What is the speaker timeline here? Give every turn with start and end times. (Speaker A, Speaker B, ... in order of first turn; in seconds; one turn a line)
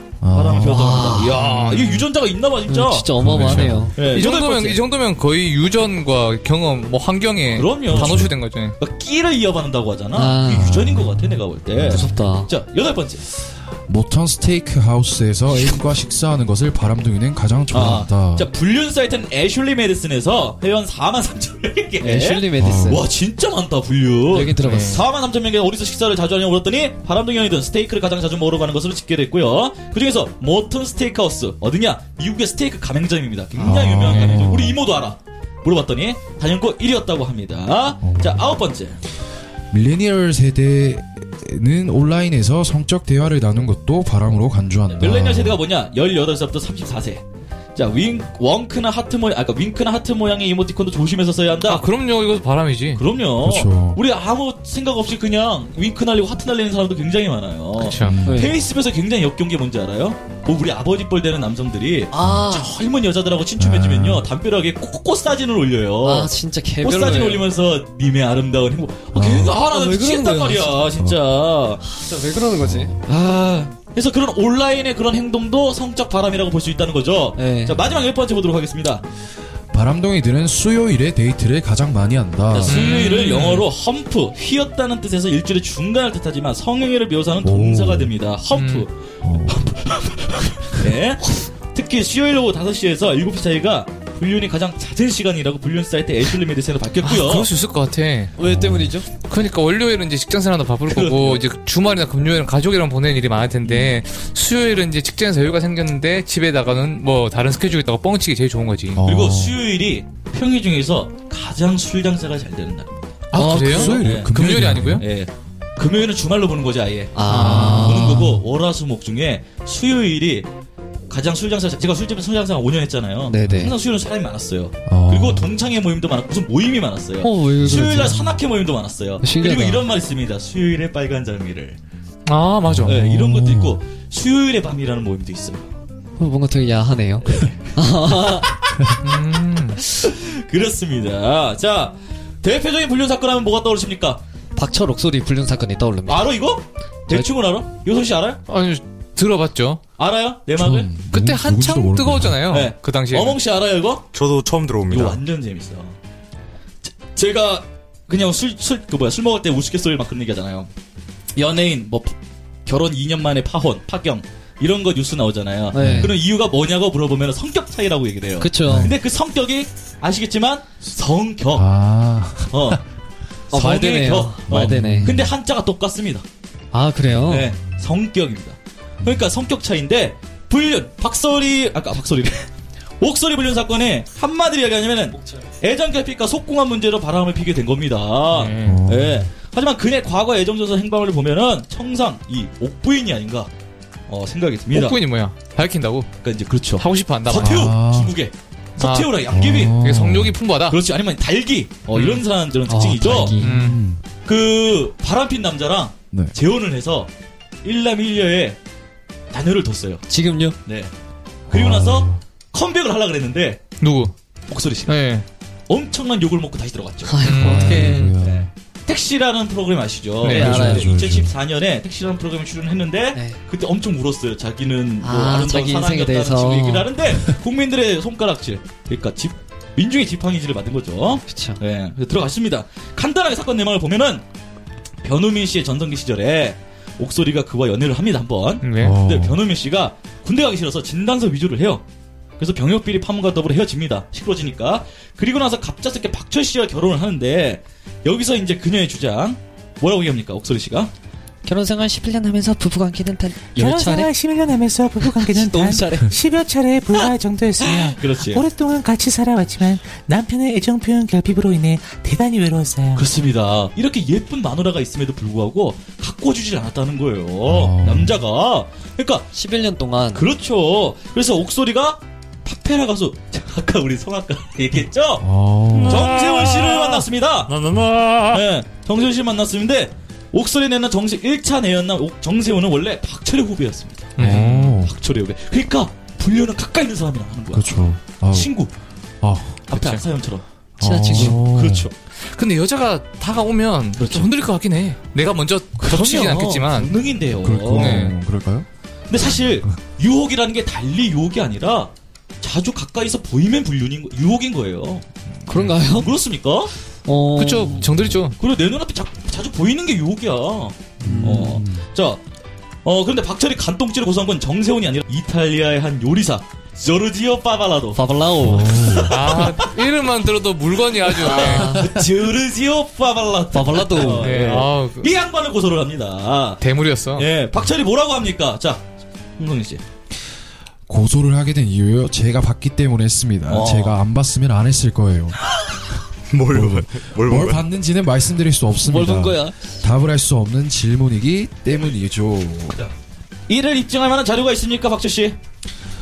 Speaker A: 0.2-1.0
Speaker B: 0.3-3.2
Speaker C: 0.6-1.4
Speaker D: 1.3-2.1
Speaker C: 2.7-3.9
Speaker A: 3.2-3.9
Speaker D: 3.3-8.8
Speaker B: 4.0-4.8
Speaker B: 7.5-13.2
Speaker A: 7.9-8.3
Speaker C: 10.1-10.8
Speaker A: 10.5-12.1
Speaker C: 11.8-12.5
Speaker A: 13.9-18.5
Speaker B: 17.7-39.0
Speaker C: 22.0-23.0
Speaker A: 22.6-23.0
Speaker C: 24.3-25.0
Speaker D: 24.6-25.0
Speaker A: 33.5-34.8
Speaker D: 33.9-34.5
Speaker A: 38.0-38.5
Speaker A: 39.7-45.6
Speaker B: 44.9-47.2
Speaker B: 47.8-51.9
Speaker D: 51.6-53.0
Speaker B: 53.0-71.8
Speaker A: 53.4-54.0
Speaker D: 57.8-58.2
Speaker A: 58.0-58.5
Speaker C: 58.2-58.5
Speaker C: 62.1-62.7
Speaker A: 63.6-64.3
Speaker C: 66.0-67.4
Speaker A: 69.1-69.6
Speaker C: 69.5-70.9
Speaker A: 71.0-71.3
Speaker C: 71.8-72.9
Speaker A: 72.6-73.0
Speaker B: 73.0-79.0
Speaker C: 77.3-77.8
Speaker A: 79.7-82.9
Speaker B: 82.5-88.9
Speaker D: 82.7-83.7
Speaker A: 87.4-88.1
Speaker D: 88.5-88.9
Speaker A: 89.2-89.7
Speaker B: 89.5-97.5
Speaker D: 97.0-98.3
Speaker C: 98.4-99.0
Speaker A: 98.4-99.0
Speaker D: 99.3-109.0
Speaker B: 100.9-101.4
Speaker A: 108.9-109.6
Speaker B: 109.0-113.0
Speaker D: 113.3-115.0
Speaker C: 113.3-113.9
Speaker A: 113.3-115.1
Speaker B: 113.8-120.5
Speaker C: 117.1-118.4
Speaker D: 117.3-118.1
Speaker A: 117.4-118.3
Speaker B: 121.1-131.8
Speaker C: 123.3-123.8
Speaker A: 123.4-123.7
Speaker A: 124.9-125.5
Speaker C: 127.2-128.3
Speaker A: 127.8-128.3
Speaker C: 129.2-129.8
Speaker D: 132.2-133.0
Speaker A: 132.7-133.8
Speaker B: 132.8-135.7
Speaker C: 136.2-138.5
Speaker B: 137.2-138.4
Speaker D: 139.0-139.8
Speaker B: 139.9-144.2
Speaker C: 144.6-146.3
Speaker B: 146.1-148.4
Speaker D: 148.5-149.8
Speaker B: 150.0-150.9
Speaker A: 150.5-152.5
Speaker D: 151.1-153.4
Speaker B: 152.5-154.1
Speaker E: 154.1-155.2
Speaker B: 154.9-155.9
Speaker B: 156.8-160.7
Speaker B: 161.3-162.1
Speaker B: 162.7-171.7
Speaker C: 165.7-166.1
Speaker A: 165.8-166.2
Speaker C: 168.4-168.9
Speaker A: 168.6-168.9
Speaker A: 171.5-172.8
Speaker B: 172.5-172.8
Speaker C: 173.5-175.2
Speaker B: 173.5-176.2
Speaker A: 174.5-175.3
Speaker C: 176.7-177.5
Speaker B: 177.2-182.5
Speaker A: 179.0-179.3
Speaker B: 183.0-193.5
Speaker D: 188.3-188.8
Speaker A: 188.6-189.3
Speaker B: 194.1-195.0
Speaker D: 194.7-196.1
Speaker B: 196.2-199.8
Speaker D: 196.8-197.7
Speaker A: 197.3-198.1
Speaker D: 198.8-199.2
Speaker A: 199.3-200.4
Speaker D: 199.8-200.8
Speaker B: 200.7-203.3
Speaker D: 201.9-202.2
Speaker C: 202.7-203.6
Speaker A: 203.3-204.0
Speaker D: 203.4-203.8
Speaker B: 204.2-207.1
Speaker B: 207.6-208.6
Speaker B: 209.3-210.0
Speaker C: 210.1-210.6
Speaker B: 210.6-210.9
Speaker A: 211.5-212.2
Speaker B: 211.5-213.6
Speaker D: 213.8-214.1
Speaker B: 214.5-215.0
Speaker D: 214.9-215.2
Speaker B: 215.7-217.3
Speaker C: 217.1-218.1
Speaker D: 217.2-218.2
Speaker A: 217.4-218.5
Speaker B: 218.2-234.2
Speaker D: 220.2-220.8
Speaker A: 220.3-221.3
Speaker C: 220.3-220.9
Speaker C: 223.1-223.4
Speaker C: 225.0-226.9
Speaker C: 231.3-231.6
Speaker B: 235.0-241.8
Speaker D: 238.6-239.0
Speaker A: 238.8-239.4
Speaker B: 242.4-250.9
Speaker C: 251.4-254.1
Speaker F: 253.5-263.1
Speaker C: 255.3-256.1
Speaker B: 257.6-258.4
Speaker B: 262.9-269.3
Speaker A: 267.4-268.2
Speaker C: 269.3-270.3
Speaker B: 270.1-275.3
Speaker A: 275.2-276.1
Speaker B: 275.8-277.6
Speaker D: 275.9-276.9
Speaker D: 277.5-278.4
Speaker B: 278.3-287.7
Speaker D: 284.2-284.8
Speaker A: 284.2-284.9
Speaker A: 287.5-288.5
Speaker B: 288.3-288.7
Speaker A: 289.2-289.7
Speaker B: 289.7-290.4
Speaker D: 289.7-290.0
Speaker A: 290.8-291.9
Speaker C: 290.8-291.4
Speaker B: 291.1-291.9
Speaker D: 292.1-297.0
Speaker B: 294.0-294.3
Speaker B: 295.8-298.1
Speaker A: 297.3-298.7
Speaker D: 297.7-298.1
Speaker B: 299.1-305.1
Speaker C: 305.5-306.1
Speaker D: 305.5-305.8
Speaker B: 305.9-306.7
Speaker C: 307.0-307.9
Speaker D: 307.4-308.4
Speaker A: 307.8-308.2
Speaker B: 308.4-312.2
Speaker A: 311.0-311.9
Speaker C: 311.0-311.6
Speaker B: 312.8-319.7
Speaker C: 317.9-318.9
Speaker A: 318.4-319.4
Speaker D: 319.1-321.9
Speaker B: 321.1-326.6
Speaker C: 321.2-321.9
Speaker C: 323.5-324.3
Speaker D: 324.0-325.1
Speaker D: 326.6-327.3
Speaker B: 327.1-328.8
Speaker B: 329.4-329.8
Speaker A: 330.9-335.4
Speaker B: 333.5-334.0
Speaker E: 336.3-337.6
Speaker A: 336.5-342.9
Speaker C: 338.9-339.6
Speaker B: 343.5-345.4